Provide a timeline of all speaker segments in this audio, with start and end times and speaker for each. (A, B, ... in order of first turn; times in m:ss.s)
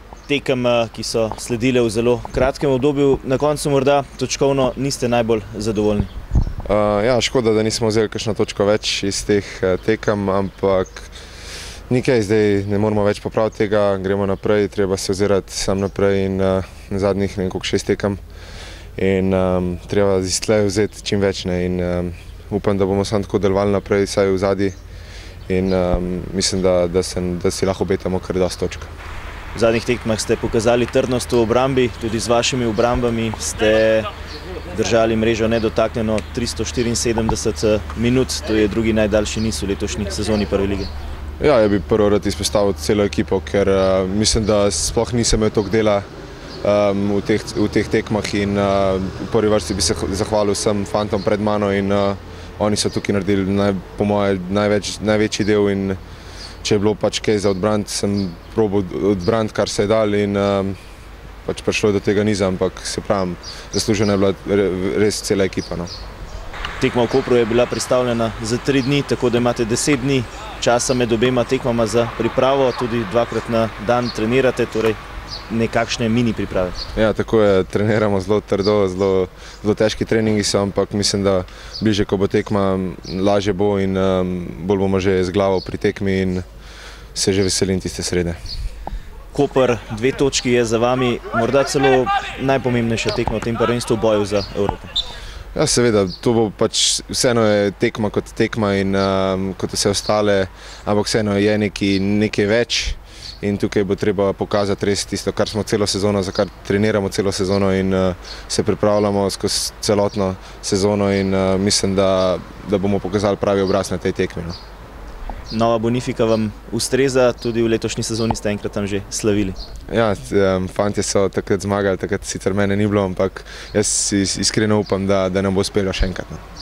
0:00.3-0:06.1 A
0:06.7-0:11.1 B
0:11.9-0:18.2 B
0:19.0-0:24.8 B
0:25.5-0:28.9 B
0:29.5-0:34.1 A
0:34.7-0:40.9 A
0:41.4-0:46.0 B
0:46.6-0:56.0 B
0:56.6-1:00.8 B
1:01.4-1:05.9 B
1:06.8-1:16.8 A
1:17.0-1:26.4 B
1:27.2-1:28.4 B
1:29.3-1:34.9 A
1:35.6-1:54.6 B
1:55.5-1:59.6 A
1:59.9-2:06.4 B